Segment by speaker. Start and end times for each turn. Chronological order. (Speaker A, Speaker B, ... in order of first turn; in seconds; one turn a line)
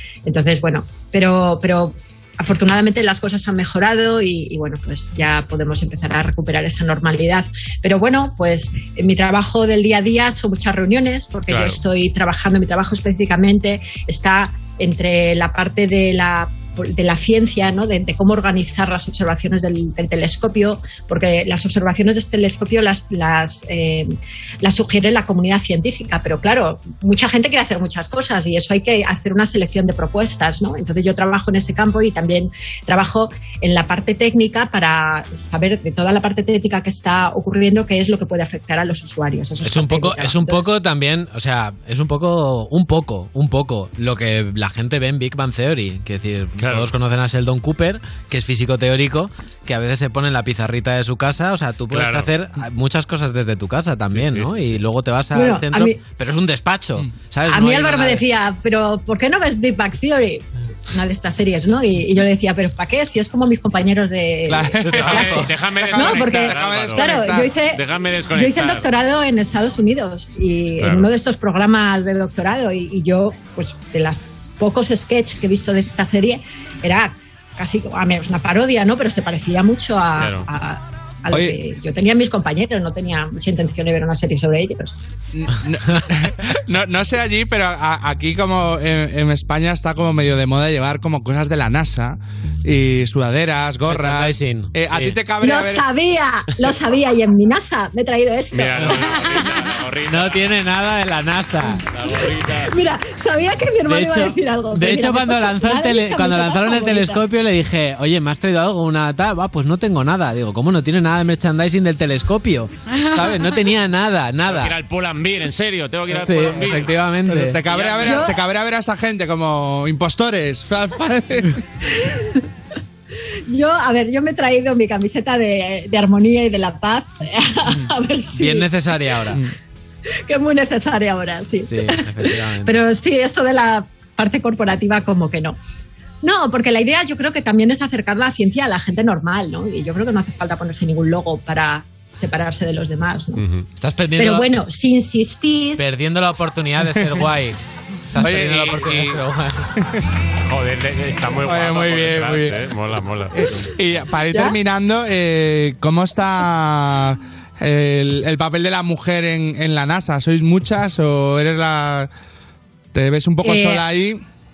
Speaker A: 0.2-40.8
Speaker B: 11.5-11.8
Speaker C: 39.6-58.2
Speaker B: 46.6-46.9
Speaker B: 51.9-52.3
Speaker B: 54.1-54.6
Speaker A: 55.3-56.0
Speaker A: 57.5-85.0
Speaker D: 64.5-67.5
Speaker C: 64.9-65.5
Speaker B: 64.9-68.9
Speaker B: 70.8-71.1
Speaker B: 80.2-80.5
Speaker D: 81.3-81.6
Speaker D: 85.3-95.8
Speaker C: 93.9-95.2
Speaker A: 95.4-99.4
Speaker B: 98.5-100.5
Speaker C: 98.8-99.1
Speaker C: 100.0-101.8
Speaker B: 101.9-102.7
Speaker A: 102.1-107.3
Speaker C: 103.8-114.7
Speaker B: 114.5-117.0
Speaker C: 116.1-117.6
Speaker D: 117.3-121.6
Speaker B: 117.7-118.3
Speaker A: 118.0-118.4
Speaker A: 122.0-122.4
Speaker A: 123.5-128.9
Speaker C: 128.3-129.4
Speaker A: 130.2-135.6
Speaker C: 131.6-132.8
Speaker A: 136.2-143.4
Speaker B: 143.3-143.7
Speaker C: 143.8-144.6
Speaker A: 144.2-145.8
Speaker C: 145.8-147.6
Speaker D: 146.8-147.3
Speaker C: 148.1-149.7
Speaker D: 148.2-149.2
Speaker B: 150.4-153.6
Speaker D: 151.4-152.6
Speaker D: 153.3-162.1
Speaker A: 154.3-154.6
Speaker D: 162.9-164.2
Speaker A: 163.4-163.8